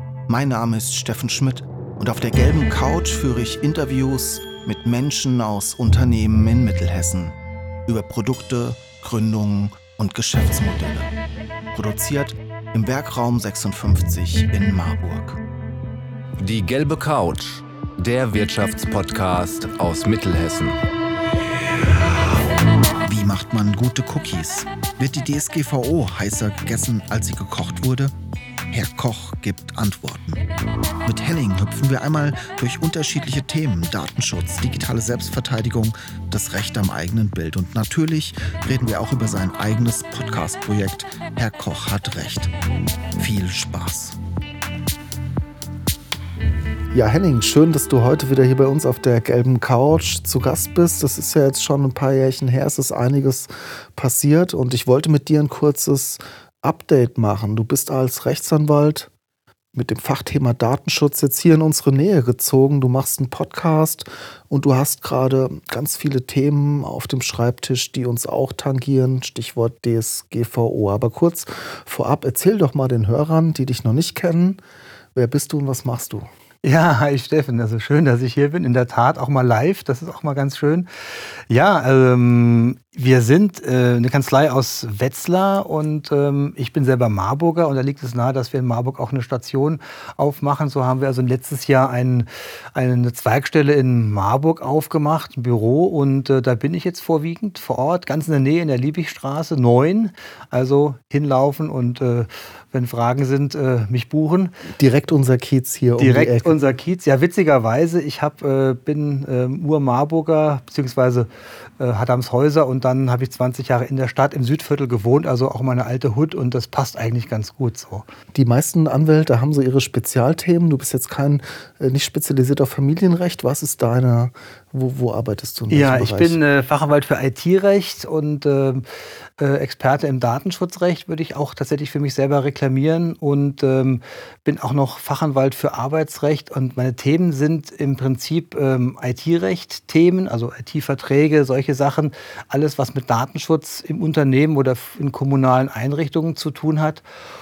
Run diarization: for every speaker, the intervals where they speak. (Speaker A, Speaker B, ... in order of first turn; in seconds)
Speaker A: 0.3-7.3, 7.9-11.1, 11.7-15.4, 23.1-28.1, 28.7-30.4, 31.0-42.5, 43.2-44.2, 46.9-59.1, 59.7-74.6, 75.1-76.3, 104.8-106.6, 118.3-126.4
Speaker B: 16.4-20.8
Speaker C: 76.6-80.9, 81.5-104.5, 106.0-111.3, 111.8-118.0, 125.7-128.8, 129.4-147.0